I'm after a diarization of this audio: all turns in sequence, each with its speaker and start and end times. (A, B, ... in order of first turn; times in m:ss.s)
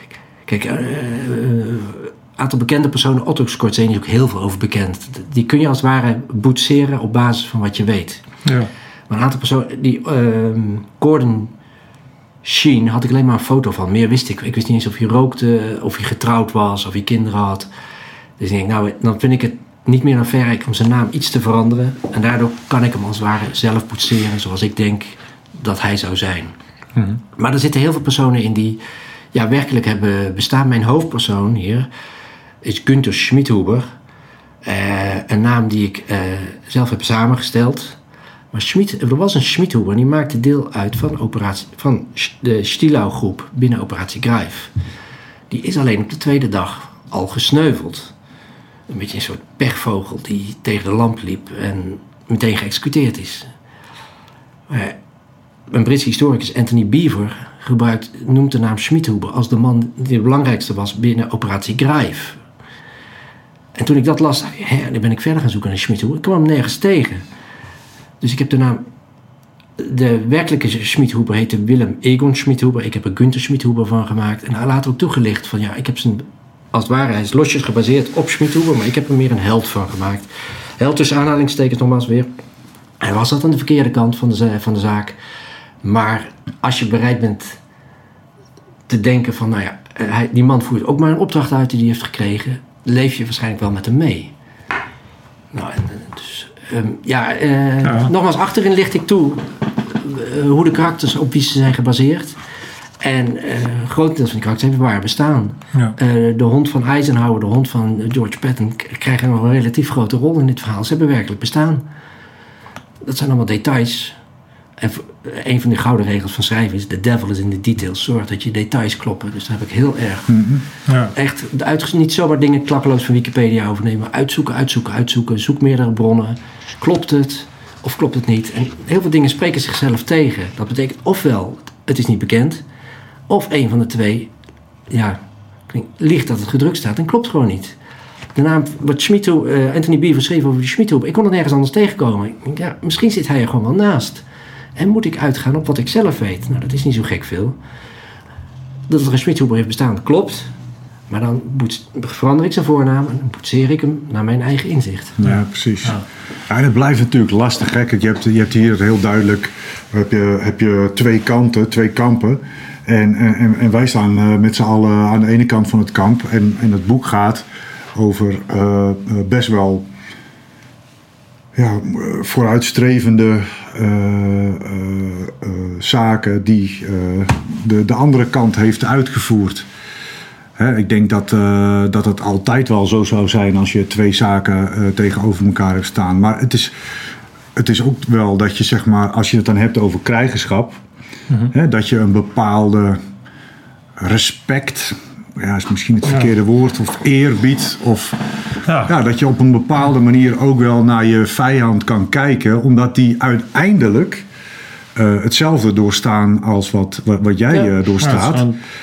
0:00.4-0:08.2 A
0:09.1-0:11.5 A
0:12.4-0:17.7 A
0:18.4-0:26.5 A
0:27.4-0:28.8 A
0:29.3-0:31.9 A
0:32.6-0:33.9 A
0:34.6-0:38.0 A
0:38.5-0:44.7 A
0:45.5-0:48.1 A
0:48.9-0:53.5 A
0:54.7-0:55.0 A
0:55.7-1:02.4 A
1:03.7-1:07.2 A
1:08.2-1:08.8 A
1:09.8-1:22.3 A
1:23.0-1:25.2 A
1:25.8-1:27.6 A
1:28.9-1:34.3 A
1:35.5-1:42.4 A
1:37.8-1:38.1 B
1:43.0-1:51.8 A
1:53.0-1:54.2 A
1:54.8-2:00.4 A
2:00.3-2:00.6 C
2:00.9-2:01.1 B
2:01.1-2:12.6 A
2:13.3-2:14.3 A
2:14.9-2:17.8 A
2:18.3-2:24.2 A
2:24.8-2:27.6 A
2:28.9-2:30.5 A
2:31.1-2:35.2 A
2:35.2-2:49.9 C
2:35.2-2:36.0 B
2:51.5-2:59.7 C
3:00.6-3:06.7 C
3:07.6-3:10.8 C
3:11.5-3:13.0 C
3:14.0-3:18.2 C
3:18.7-3:18.9 B
3:18.8-3:24.2 C
3:24.9-3:28.5 C
3:28.0-3:28.6 B